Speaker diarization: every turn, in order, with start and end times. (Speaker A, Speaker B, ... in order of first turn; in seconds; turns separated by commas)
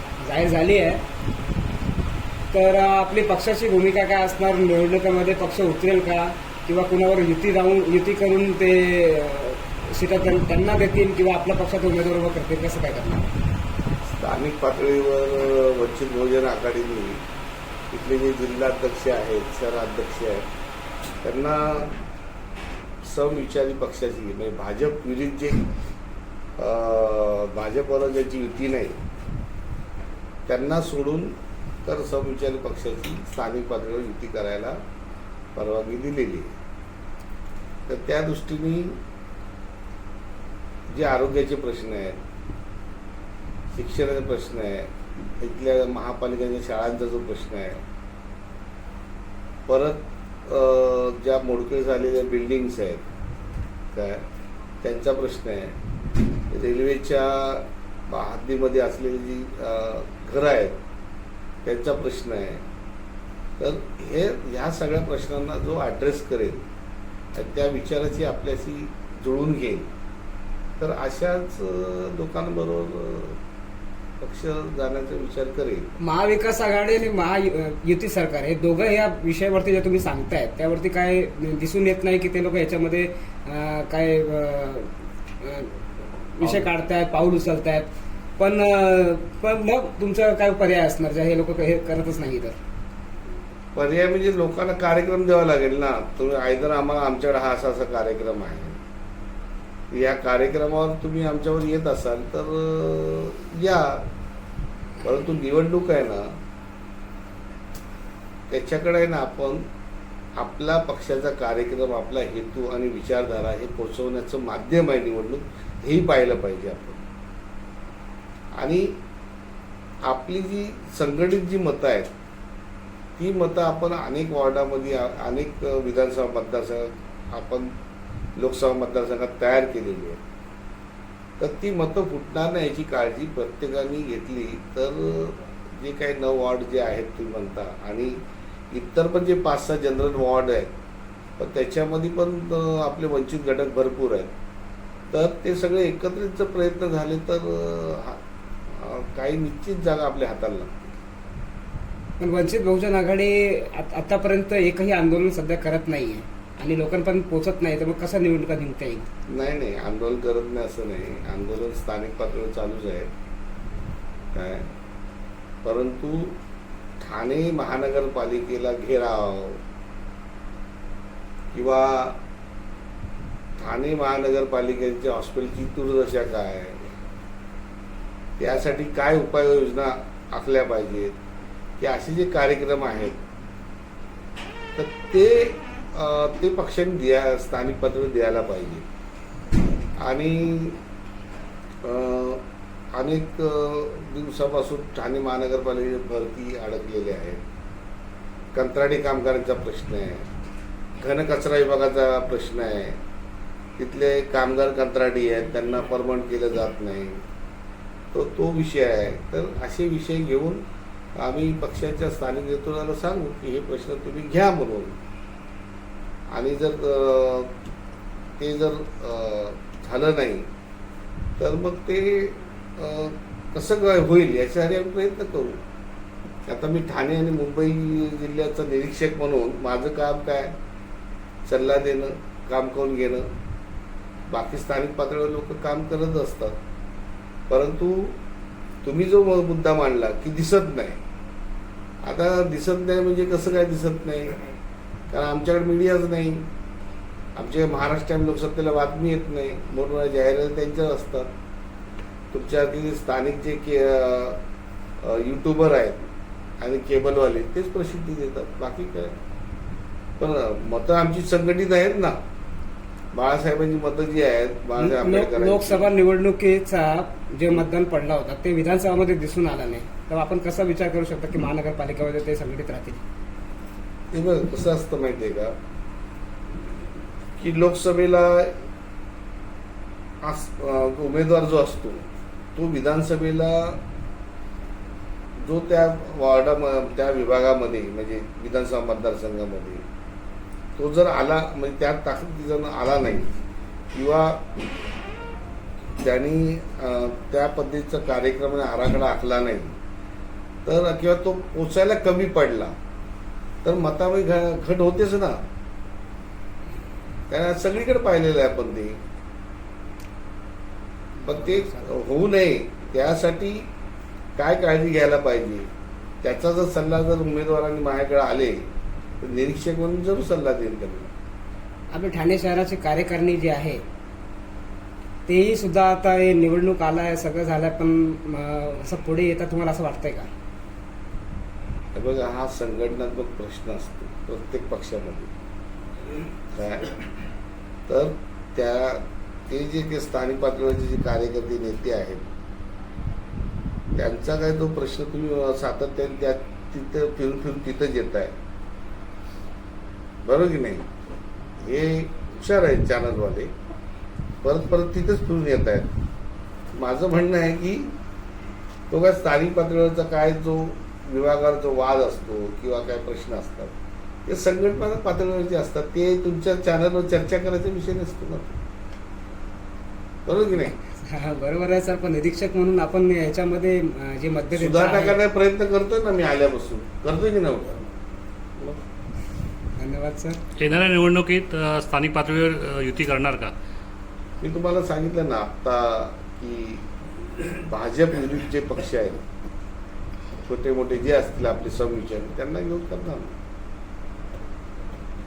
Speaker A: 0.2-1.0, Speaker A: 2.5-13.3, Speaker B: 14.1-17.2, Speaker B: 17.9-20.5, Speaker B: 21.2-22.0, Speaker B: 23.0-25.7, Speaker B: 26.6-29.0, Speaker B: 30.5-34.8, Speaker B: 35.5-36.5, Speaker B: 37.9-39.0, Speaker B: 40.9-42.2, Speaker B: 43.7-47.8, Speaker B: 49.7-53.0, Speaker B: 53.9-54.3, Speaker B: 54.8-55.8, Speaker B: 56.5-60.8, Speaker B: 61.6-62.7, Speaker B: 63.6-66.6, Speaker B: 67.3-69.9, Speaker B: 70.8-73.4, Speaker B: 74.2-76.0, Speaker A: 76.0-85.8, Speaker A: 86.3-92.6, Speaker B: 86.4-86.7, Speaker B: 93.8-98.8, Speaker B: 99.9-104.1, Speaker B: 105.0-106.4, Speaker B: 108.5-109.7, Speaker B: 110.4-117.0, Speaker B: 118.6-119.0, Speaker B: 120.1-122.1, Speaker B: 123.2-127.7, Speaker B: 128.4-130.2, Speaker B: 131.4-138.2, Speaker B: 138.7-140.8, Speaker B: 141.4-144.3, Speaker B: 145.1-150.9, Speaker A: 152.2-159.1, Speaker B: 159.3-163.1, Speaker B: 164.3-164.7, Speaker B: 165.6-166.4, Speaker B: 167.0-169.6, Speaker B: 171.5-172.2, Speaker B: 173.6-176.9, Speaker B: 178.4-181.2, Speaker B: 181.8-183.2, Speaker B: 184.8-188.9, Speaker B: 190.0-190.8, Speaker B: 191.8-197.4, Speaker B: 198.5-200.3, Speaker B: 201.0-203.0, Speaker B: 203.8-207.2, Speaker B: 208.1-210.6, Speaker B: 211.2-215.0, Speaker B: 216.3-217.6, Speaker B: 218.4-220.5, Speaker B: 221.4-225.6, Speaker B: 226.5-230.6, Speaker B: 231.5-233.3, Speaker B: 234.3-236.6, Speaker B: 237.5-238.2, Speaker B: 238.8-241.0, Speaker B: 242.0-244.4, Speaker B: 245.1-246.5, Speaker B: 247.4-251.3, Speaker B: 252.3-254.4, Speaker B: 255.0-259.2, Speaker B: 260.2-262.2, Speaker B: 263.1-265.9, Speaker A: 264.8-273.0, Speaker B: 274.1-275.5, Speaker B: 277.4-278.6, Speaker B: 280.2-283.8, Speaker B: 285.4-289.8, Speaker B: 290.8-293.4, Speaker B: 293.9-294.5, Speaker B: 296.0-299.8, Speaker B: 300.6-302.8, Speaker B: 303.6-305.4, Speaker B: 307.3-309.0, Speaker A: 311.2-311.9, Speaker B: 311.3-313.7, Speaker B: 314.4-315.7, Speaker B: 316.2-318.7, Speaker B: 319.2-321.1, Speaker A: 321.9-323.8, Speaker A: 325.3-330.3, Speaker B: 331.9-335.3, Speaker B: 336.5-337.0, Speaker B: 337.9-342.3, Speaker B: 344.0-348.4, Speaker B: 350.2-350.9, Speaker B: 351.6-353.5, Speaker B: 354.4-355.9, Speaker B: 356.8-358.0, Speaker B: 358.9-363.7, Speaker B: 364.3-368.6, Speaker B: 370.3-370.8, Speaker A: 370.6-375.2, Speaker B: 374.6-377.9, Speaker A: 379.8-380.4, Speaker C: 380.6-383.5, Speaker B: 384.4-389.2, Speaker B: 390.4-393.3